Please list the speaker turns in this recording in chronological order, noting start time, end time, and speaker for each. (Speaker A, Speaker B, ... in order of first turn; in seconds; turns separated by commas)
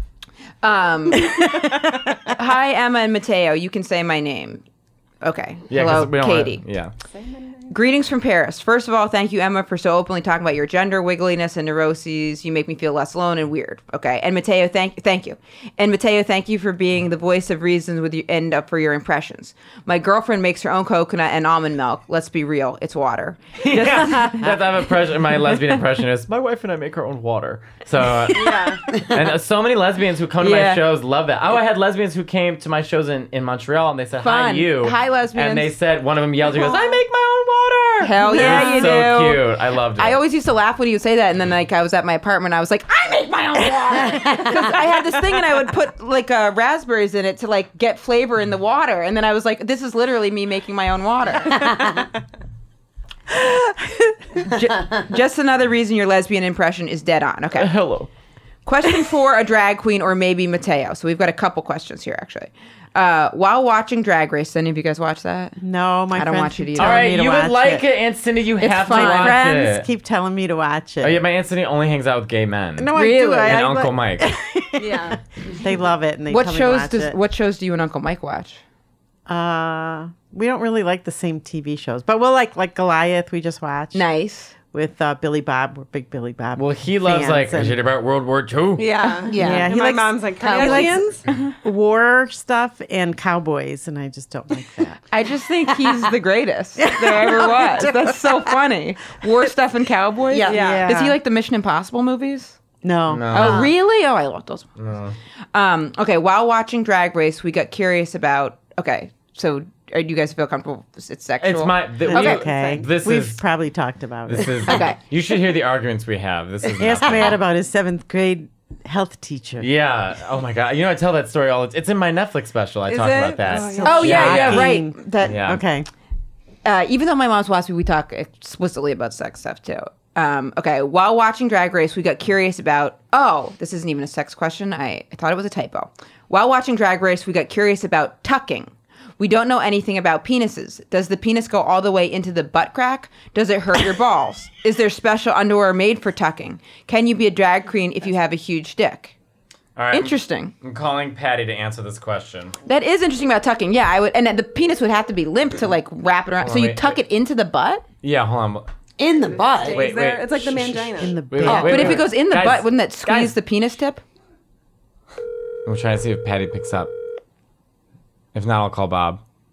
Speaker A: 0.6-1.4, Speaker B: 1.2-1.7, Speaker A: 2.3-4.6, Speaker A: 5.2-6.6, Speaker C: 5.7-6.9, Speaker D: 7.1-7.7, Speaker A: 7.7-24.5, Speaker C: 23.6-40.2, Speaker D: 28.3-28.8, Speaker A: 30.4-30.8, Speaker A: 34.2-35.7, Speaker A: 38.0-39.4, Speaker D: 38.3-38.9, Speaker A: 40.0-51.7, Speaker E: 44.0-44.5, Speaker B: 53.4-54.1, Speaker A: 54.4-57.7, Speaker C: 57.5-58.1, Speaker A: 58.6-65.6, Speaker B: 65.6-67.8, Speaker A: 66.1-67.1, Speaker C: 66.8-69.9, Speaker A: 68.6-69.5, Speaker B: 68.9-71.2, Speaker C: 71.0-74.3, Speaker B: 72.8-77.2, Speaker A: 72.9-73.6, Speaker D: 74.8-75.2, Speaker A: 76.3-78.6, Speaker B: 79.3-84.1, Speaker A: 83.9-84.5, Speaker B: 84.6-87.8, Speaker C: 86.5-88.9, Speaker D: 88.8-91.2, Speaker E: 89.3-89.7, Speaker B: 89.3-91.0, Speaker E: 90.4-90.9, Speaker B: 91.6-95.0, Speaker A: 95.1-102.6, Speaker B: 96.8-98.5, Speaker E: 100.3-100.8, Speaker D: 100.5-100.9, Speaker B: 100.5-101.2, Speaker B: 102.8-103.7, Speaker C: 103.1-103.7, Speaker A: 103.3-104.7, Speaker E: 103.4-103.7, Speaker C: 104.8-105.2, Speaker A: 105.5-112.4, Speaker C: 111.4-113.4, Speaker B: 112.1-114.8, Speaker D: 112.3-112.8, Speaker C: 114.3-117.4, Speaker A: 114.7-115.0, Speaker B: 116.8-119.7, Speaker C: 119.6-125.6, Speaker D: 122.9-124.5, Speaker B: 123.5-125.9, Speaker A: 123.8-125.4, Speaker A: 126.6-149.2, Speaker C: 149.8-152.5, Speaker A: 149.9-150.5, Speaker A: 152.7-157.8, Speaker C: 156.4-156.9, Speaker C: 158.0-158.7, Speaker E: 159.0-159.8, Speaker D: 159.6-161.2, Speaker C: 159.7-163.3, Speaker B: 161.0-162.0, Speaker E: 161.4-162.0, Speaker A: 161.5-164.0, Speaker C: 165.7-166.9, Speaker C: 168.3-169.2